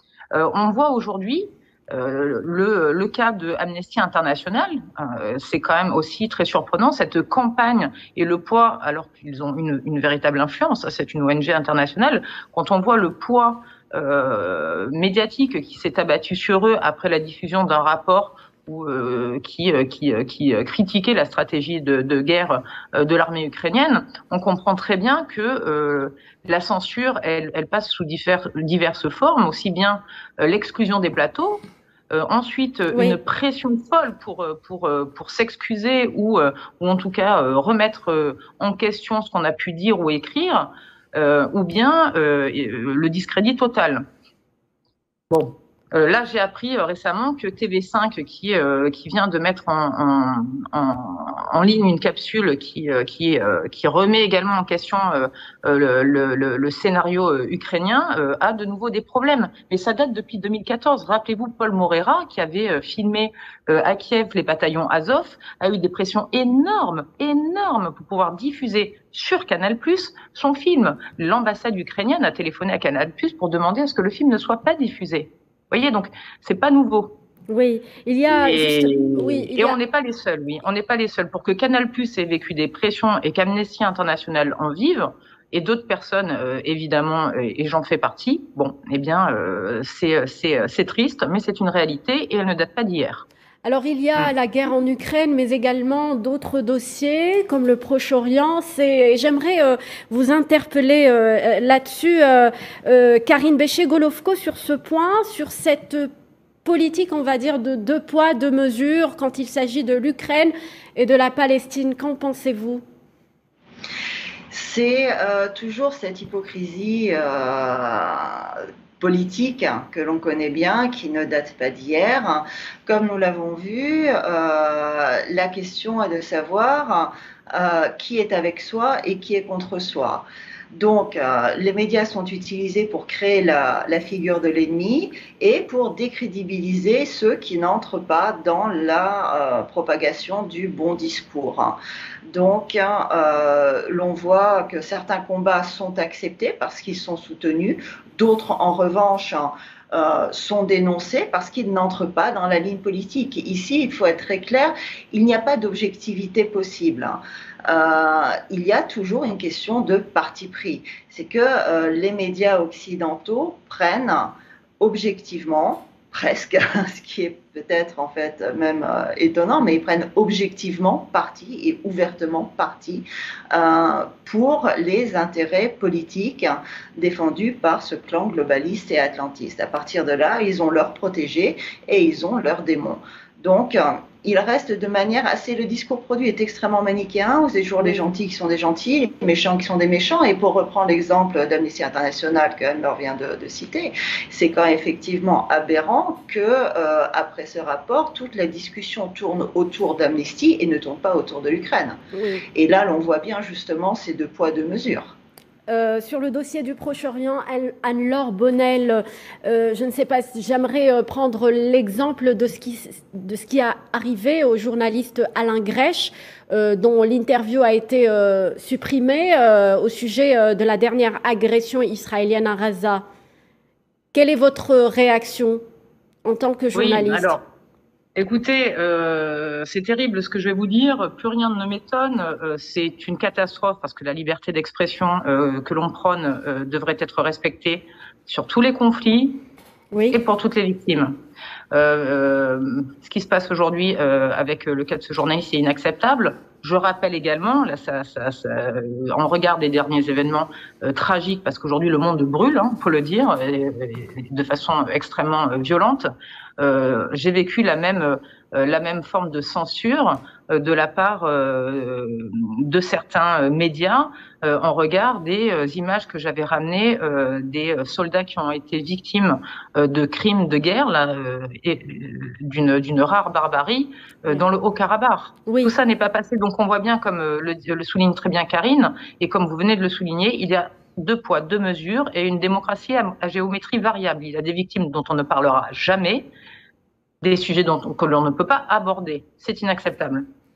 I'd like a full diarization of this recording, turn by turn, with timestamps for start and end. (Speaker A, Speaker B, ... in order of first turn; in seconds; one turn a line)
Speaker A: 0.3-44.0
Speaker B: 32.9-33.2
Speaker A: 45.3-77.2
Speaker B: 77.5-79.8
Speaker A: 78.3-93.2
Speaker B: 93.6-106.1
Speaker B: 106.6-112.8
Speaker C: 114.5-141.8
Speaker C: 142.3-202.0
Speaker B: 202.1-202.4
Speaker C: 202.5-205.2
Speaker B: 205.7-223.0
Speaker B: 224.1-225.6
Speaker B: 226.2-227.4
Speaker A: 226.8-227.4
Speaker A: 228.2-239.4
Speaker B: 239.9-240.2
Speaker A: 240.1-241.2
Speaker A: 241.7-286.3
Speaker B: 275.5-275.7
Speaker A: 287.2-290.3